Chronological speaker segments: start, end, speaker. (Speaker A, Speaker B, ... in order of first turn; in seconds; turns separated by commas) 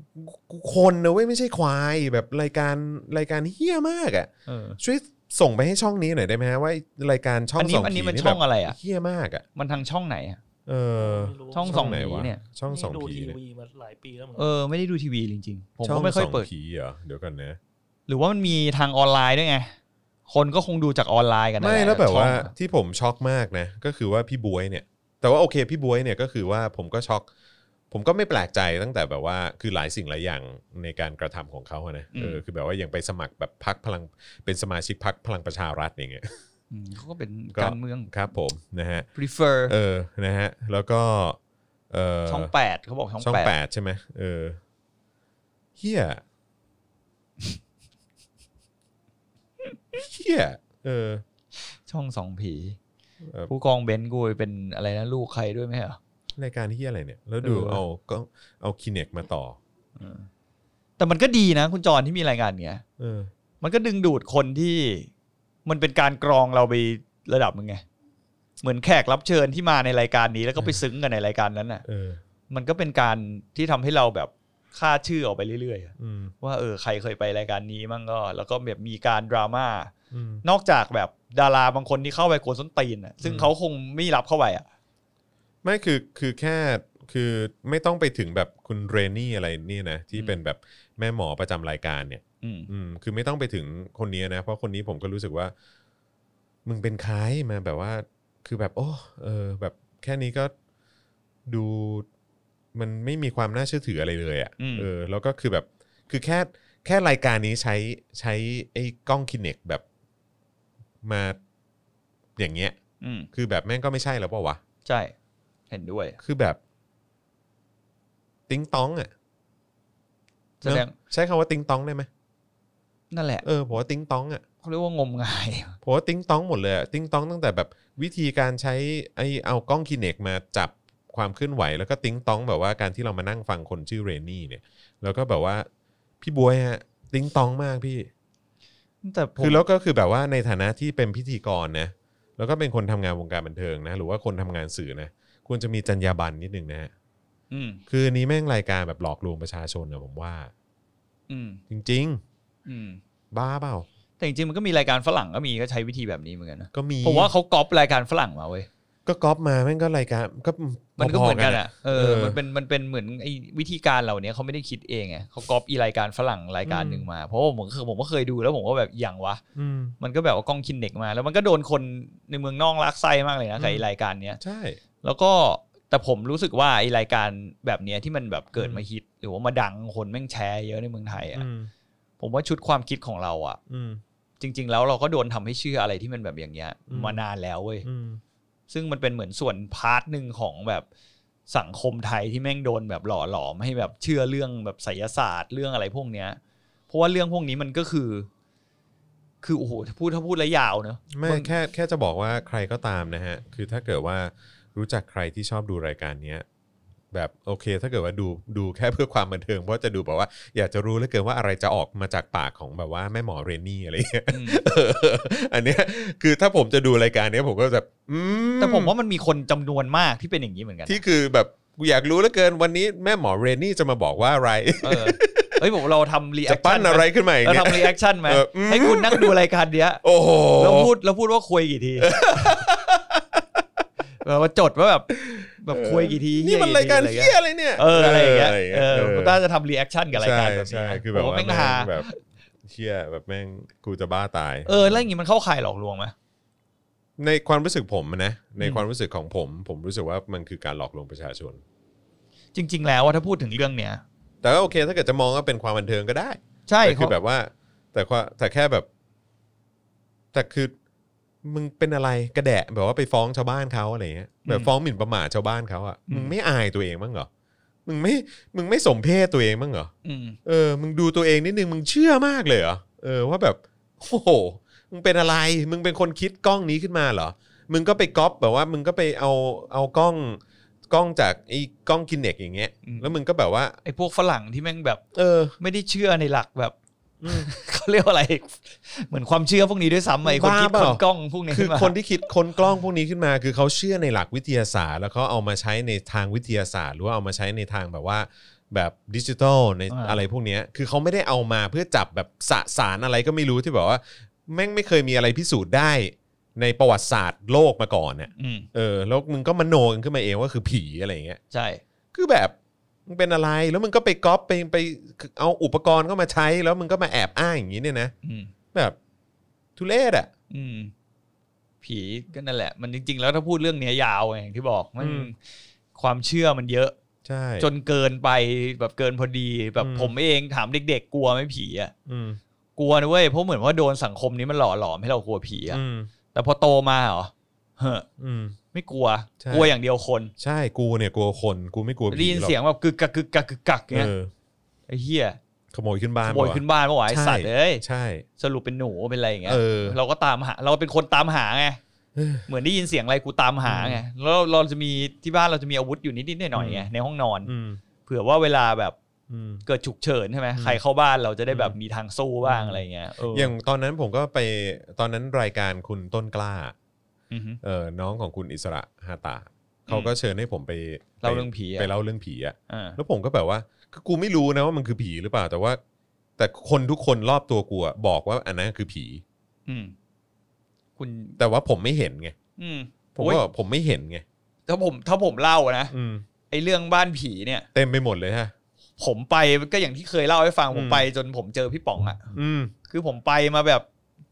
Speaker A: 0.1-9.4, Speaker B: 4.5-4.8, Speaker B: 7.6-8.8, Speaker B: 9.6-10.4, Speaker A: 10.7-13.4, Speaker C: 11.0-12.0, Speaker B: 11.5-12.4, Speaker C: 12.7-14.5, Speaker B: 14.3-16.5, Speaker A: 15.8-17.6, Speaker B: 18.1-19.7, Speaker B: 20.3-22.5, Speaker A: 21.6-27.2, Speaker A: 27.9-36.4, Speaker B: 32.1-32.4, Speaker B: 36.7-38.1, Speaker A: 37.5-39.1, Speaker B: 39.1-39.7, Speaker A: 39.7-41.4, Speaker A: 41.9-42.5, Speaker B: 42.3-43.5, Speaker A: 43.2-44.6, Speaker A: 45.8-46.2, Speaker A: 49.9-51.2, Speaker B: 51.7-52.8, Speaker A: 53.2-53.5, Speaker B: 53.5-56.0, Speaker A: 56.4-59.6, Speaker B: 57.4-57.8, Speaker B: 60.0-60.3, Speaker B: 61.0-62.8, Speaker A: 63.0-63.3, Speaker B: 63.6-65.1, Speaker B: 65.7-67.8, Speaker B: 68.6-71.8, Speaker A: 71.8-72.2, Speaker B: 72.5-84.6, Speaker A: 76.0-76.3, Speaker A: 80.1-80.4, Speaker A: 83.2-83.5, Speaker A: 85.6-95.5, Speaker B: 92.4-92.7, Speaker A: 96.6-100.5, Speaker A: 101.5-102.1, Speaker A: 102.7-109.8, Speaker B: 104.6-104.9, Speaker A: 111.0-111.4, Speaker A: 112.4-112.8, Speaker B: 113.0-113.3, Speaker A: 113.3-114.6, Speaker B: 114.8-115.1, Speaker B: 115.7-116.2, Speaker A: 116.2-116.6, Speaker A: 118.5-119.1, Speaker B: 120.6-120.9, Speaker A: 120.6-122.1, Speaker B: 123.1-123.4, Speaker A: 123.4-124.4, Speaker B: 124.6-125.8, Speaker A: 125.8-135.7, Speaker A: 136.2-138.1, Speaker B: 139.0-139.6, Speaker A: 139.4-146.9, Speaker B: 147.5-147.8, Speaker A: 147.9-150.5, Speaker B: 151.3-151.6, Speaker A: 151.7-152.2, Speaker B: 152.7-153.0, Speaker A: 153.3-153.9, Speaker B: 154.2-158.7, Speaker A: 156.7-157.3, Speaker A: 159.1-162.4, Speaker B: 161.0-169.4, Speaker A: 166.7-167.1, Speaker A: 169.5-169.9, Speaker B: 170.0-174.4, Speaker A: 173.6-173.8, Speaker A: 174.4-174.8, Speaker B: 175.0-181.4, Speaker A: 178.5-178.8, Speaker A: 181.3-181.7, Speaker B: 182.2-183.6, Speaker A: 183.7-184.0, Speaker B: 184.4-187.8, Speaker A: 186.9-187.2, Speaker A: 187.8-188.2, Speaker B: 188.7-190.8, Speaker B: 191.5-198.3, Speaker B: 199.4-201.5, Speaker A: 201.1-206.4, Speaker A: 207.1-218.9, Speaker B: 214.3-214.6, Speaker B: 218.6-221.0, Speaker A: 220.9-225.6, Speaker B: 224.8-230.0, Speaker A: 226.4-229.3, Speaker A: 230.0-230.9, Speaker B: 230.6-232.2, Speaker A: 232.0-233.6, Speaker B: 234.2-242.2, Speaker A: 235.2-239.4, Speaker A: 240.1-242.1, Speaker A: 242.6-245.0, Speaker B: 244.7-246.1, Speaker A: 247.2-251.6, Speaker B: 248.6-248.8, Speaker B: 252.5-254.0, Speaker A: 254.4-258.9, Speaker B: 256.7-257.1, Speaker A: 260.3-260.7, Speaker A: 261.4-267.3, Speaker B: 264.4-264.7, Speaker B: 266.1-266.3, Speaker A: 267.9-269.9, Speaker B: 270.0-270.4, Speaker A: 270.4-283.8, Speaker B: 282.8-283.1, Speaker B: 283.8-285.0, Speaker A: 285.1-285.5, Speaker B: 285.6-286.7, Speaker A: 287.2-287.5, Speaker B: 287.3-291.9, Speaker A: 290.2-311.4, Speaker B: 299.9-300.2, Speaker B: 308.4-308.7, Speaker B: 311.5-311.8, Speaker A: 312.1-312.5, Speaker A: 313.1-318.1, Speaker B: 318.2-318.5, Speaker A: 319.8-320.3, Speaker B: 320.5-320.9, Speaker B: 321.8-325.4, Speaker A: 325.0-325.3, Speaker B: 325.9-326.9, Speaker A: 327.2-327.7, Speaker B: 327.6-331.9, Speaker A: 329.8-330.1, Speaker A: 332.1-332.4, Speaker B: 332.8-335.8, Speaker A: 335.7-336.1, Speaker B: 336.3-338.1, Speaker A: 338.2-338.6, Speaker B: 338.7-340.3, Speaker A: 339.4-339.7, Speaker A: 340.4-342.6, Speaker B: 342.1-344.1, Speaker A: 343.9-344.3, Speaker B: 344.9-345.4, Speaker A: 345.7-348.2, Speaker B: 346.2-347.8, Speaker B: 348.4-351.8, Speaker A: 349.4-350.0, Speaker A: 352.1-352.4, Speaker B: 352.5-357.5, Speaker A: 353.6-354.0, Speaker A: 356.6-356.9, Speaker A: 357.4-357.8, Speaker B: 358.1-358.9, Speaker A: 359.3-359.6, Speaker B: 359.6-363.5, Speaker A: 360.5-360.8, Speaker A: 361.5-361.8, Speaker A: 362.4-366.7, Speaker B: 367.3-367.6, Speaker A: 367.6-375.8, Speaker B: 369.9-370.1, Speaker B: 371.2-371.9, Speaker B: 372.7-373.0, Speaker A: 376.4-379.2, Speaker B: 379.6-379.9, Speaker B: 381.0-381.4, Speaker A: 381.4-382.3, Speaker B: 382.6-383.4, Speaker A: 383.1-384.2, Speaker B: 384.7-385.9, Speaker A: 385.9-386.2, Speaker B: 386.5-387.6, Speaker A: 387.7-388.5, Speaker B: 389.0-392.3, Speaker A: 390.7-391.1, Speaker A: 392.3-392.7, Speaker B: 392.9-393.9